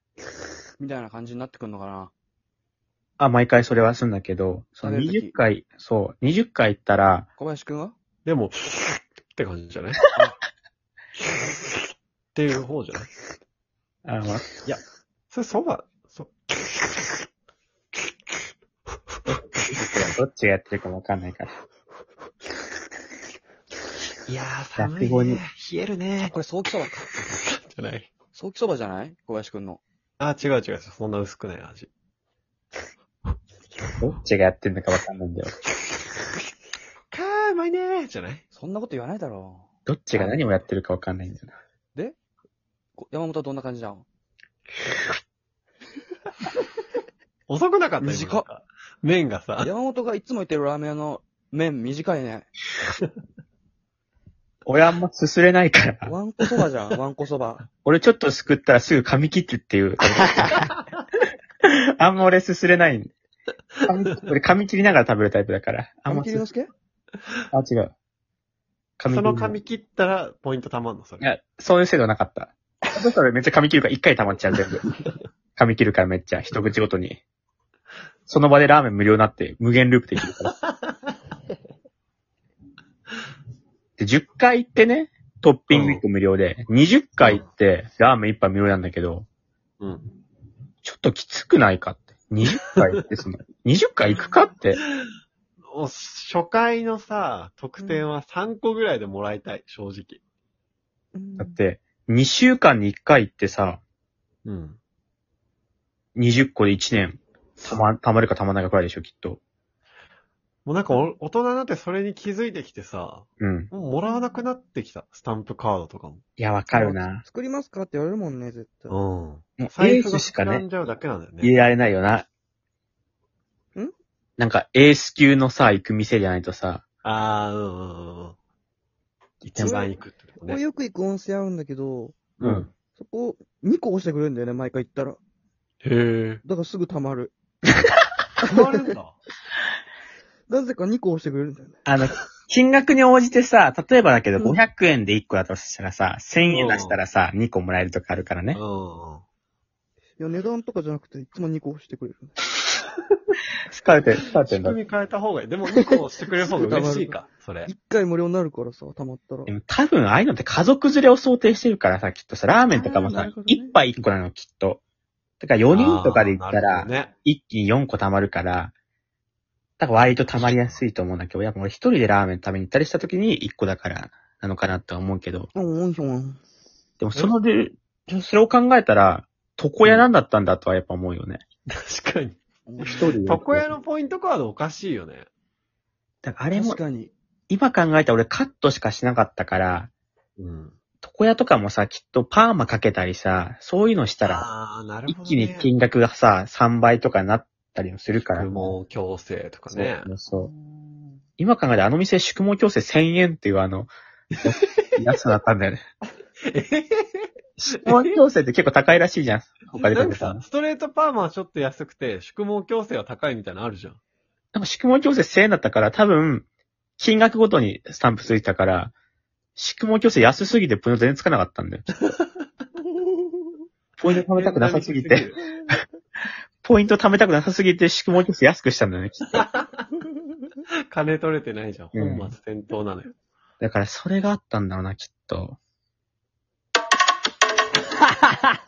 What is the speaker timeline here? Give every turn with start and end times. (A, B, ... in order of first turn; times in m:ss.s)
0:00.8-0:02.1 A
0:03.2-0:07.3 B
0:04.8-0:05.4 A
0:07.4-0:07.9 A
0:08.2-0:10.0 C
0:12.3-0:13.1 C
0:14.0-0:14.4 B
0:14.6-0:16.7 C
0:19.3-0:21.5 B
0:24.3-0:26.4 C
0:24.8-0:25.4 B
0:26.2-0:27.1 A
0:27.2-0:28.1 C
0:28.3-0:29.8 A
0:30.2-0:31.9 C
0:34.0-0:35.5 B
0:37.1-0:38.4 C
0:38.5-0:40.4 A
0:39.9-0:41.5 B
0:43.0-0:44.0 A
0:47.5-0:49.7 C
0:48.0-0:48.4 A
0:49.6-0:52.5 A
0:54.6-0:56.1 B
0:56.0-0:57.6 A
0:57.8-1:00.7 B
1:00.4-1:00.6 A
1:01.6-1:03.1 B
1:03.8-1:06.4 B
1:06.1-1:06.7 A
1:07.5-1:07.9 B
1:09.0-1:09.6 B
1:09.0-1:11.2 C
1:11.2-1:14.8 B
1:15.6-1:17.2 B
1:18.3-1:20.5 B
1:24.0-1:29.2 B
1:25.7-1:26.0 C
1:29.8-1:30.1 C
1:30.8-1:34.8 B
1:34.1-1:34.5 A
1:35.7-1:40.2 C
1:37.8-1:38.1 A
1:41.1-1:41.6 A
1:41.4-1:43.8 B
1:44.4-1:44.8 C
1:46.2-1:49.4 B
1:50.6-1:56.2 C
1:53.4-1:53.7 B
1:56.4-1:57.2 B
1:56.7-1:59.0 A
1:58.9-2:01.6 C
1:59.6-2:00.6 B
2:01.4-2:02.3 B
2:04.4-2:06.8 B
2:07.0-2:08.3 C
2:09.4-2:10.6 C
2:09.5-2:09.8 B
2:09.6-2:12.2 A
2:12.4-2:12.7 C
2:13.0-2:15.2 A
2:15.8-2:16.4 C
2:16.4-2:17.3 A
2:18.4-2:19.2 C
2:18.5-2:18.9 A
2:20.5-2:21.8 A
2:21.8-2:28.6 B
2:26.4-2:27.0 C
2:28.5-2:29.2 C
2:30.2-2:32.4 A
2:33.7-2:34.8 B
2:34.4-2:37.7 C
2:36.4-2:39.5 A
2:39.5-2:44.8 B
2:42.7-2:43.8 A
2:45.4-2:48.7 B
2:45.7-2:47.1 C
2:49.8-2:55.5 B
2:50.2-2:50.8 C
2:55.5-2:56.4 A
2:57.0-3:01.4 B
2:59.8-3:00.1 C
3:01.7-3:05.3 C
3:02.7-3:03.2 A
3:02.8-3:03.7 B
3:06.2-3:06.8 B
3:06.5-3:07.1 A
3:07.5-3:09.9 B
3:10.4-3:10.8 C
3:11.0-3:14.5 B
3:14.2-3:15.7 C
3:15.1-3:18.7 B
3:18.3-3:20.1 C
3:19.7-3:20.5 B
3:20.3-3:21.2 A
3:21.4-3:23.9 B
3:24.3-3:24.9 C
3:24.4-3:25.8 B
3:26.5-3:27.3 C
3:27.6-3:30.4 B
3:27.9-3:28.1 C
3:29.7-3:34.0 C
3:34.5-3:36.5 B
3:37.0-3:38.9 B
3:39.6-3:42.0 B
3:44.0-3:45.3 B
3:44.1-3:45.5 C
3:46.6-3:49.4 B
3:49.3-3:49.7 C
3:50.9-3:53.1 C
3:51.9-3:52.3 B
3:53.6-3:55.6 B